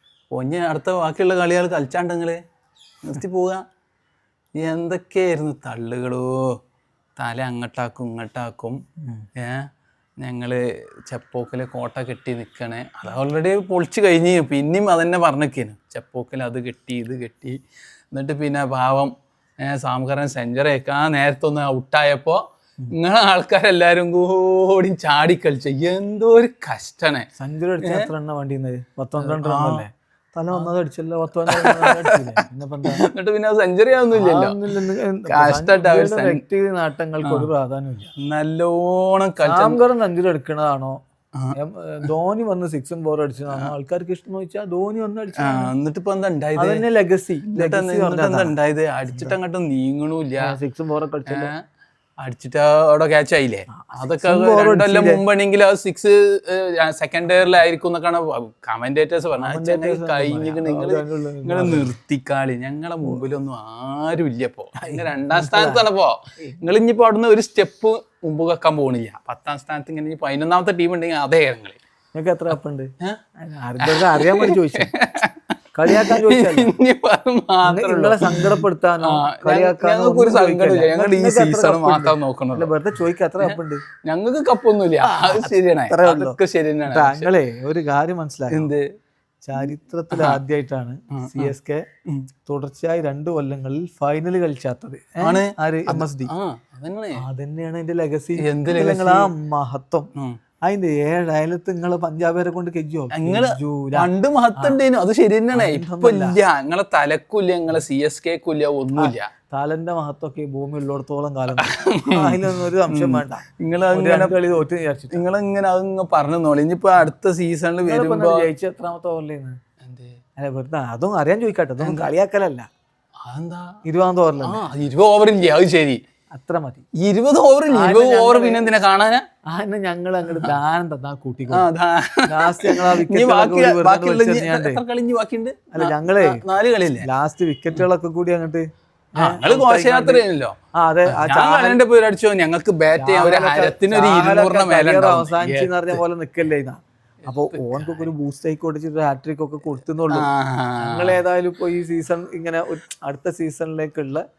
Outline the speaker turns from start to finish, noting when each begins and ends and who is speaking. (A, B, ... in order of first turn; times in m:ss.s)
0:00.3-0:02.4 A
0:03.0-0:03.6 A
0:04.6-0:06.4 A
0:07.2-0:08.8 A
0:09.4-0:09.7 A
0:10.2-0:17.6 A
0:18.1-0:27.3 A
0:27.4-0:33.0 B
0:29.2-0:29.9 A
0:31.5-0:34.6 A
0:34.1-0:38.1 B
0:35.3-0:36.4 A
0:37.2-0:37.5 A
0:38.2-0:39.8 A
0:39.4-0:41.0 B
0:41.6-0:45.7 B
0:45.4-0:46.8 A
0:46.6-0:48.6 B
0:47.5-0:50.6 A
0:50.4-0:51.5 B
0:51.3-0:51.6 A
0:52.2-1:11.8 A
0:53.7-0:55.2 B
0:59.4-1:01.9 B
1:04.8-1:05.8 B
1:12.1-1:14.9 B
1:13.8-1:22.7 A
1:15.8-1:16.7 B
1:17.6-1:23.8 B
1:23.4-1:27.3 A
1:25.0-1:26.4 B
1:26.9-1:28.7 B
1:28.5-1:28.8 A
1:29.4-1:31.8 B
1:29.6-1:30.4 A
1:31.1-1:31.5 A
1:32.5-1:36.3 B
1:35.2-1:37.2 A
1:37.2-1:40.1 B
1:38.4-1:39.3 A
1:40.6-1:44.8 B
1:43.1-1:49.3 A
1:45.5-1:46.4 B
1:49.0-1:55.3 B
1:51.6-1:54.4 A
1:55.1-1:58.5 A
1:57.8-1:59.6 B
1:59.8-2:00.2 A
2:00.4-2:02.7 B
2:01.8-2:02.1 A
2:03.2-2:03.8 A
2:03.8-2:04.6 B
2:04.4-2:06.0 A
2:06.3-2:06.8 B
2:07.0-2:09.2 A
2:07.7-2:08.7 B
2:09.5-2:11.7 B
2:10.3-2:10.6 A
2:11.5-2:17.1 A
2:12.3-2:14.8 B
2:15.7-2:16.4 B
2:17.0-2:21.8 B
2:19.2-2:20.6 A
2:21.1-2:26.0 A
2:23.0-2:34.2 B
2:27.3-2:28.1 A
2:30.1-2:31.2 A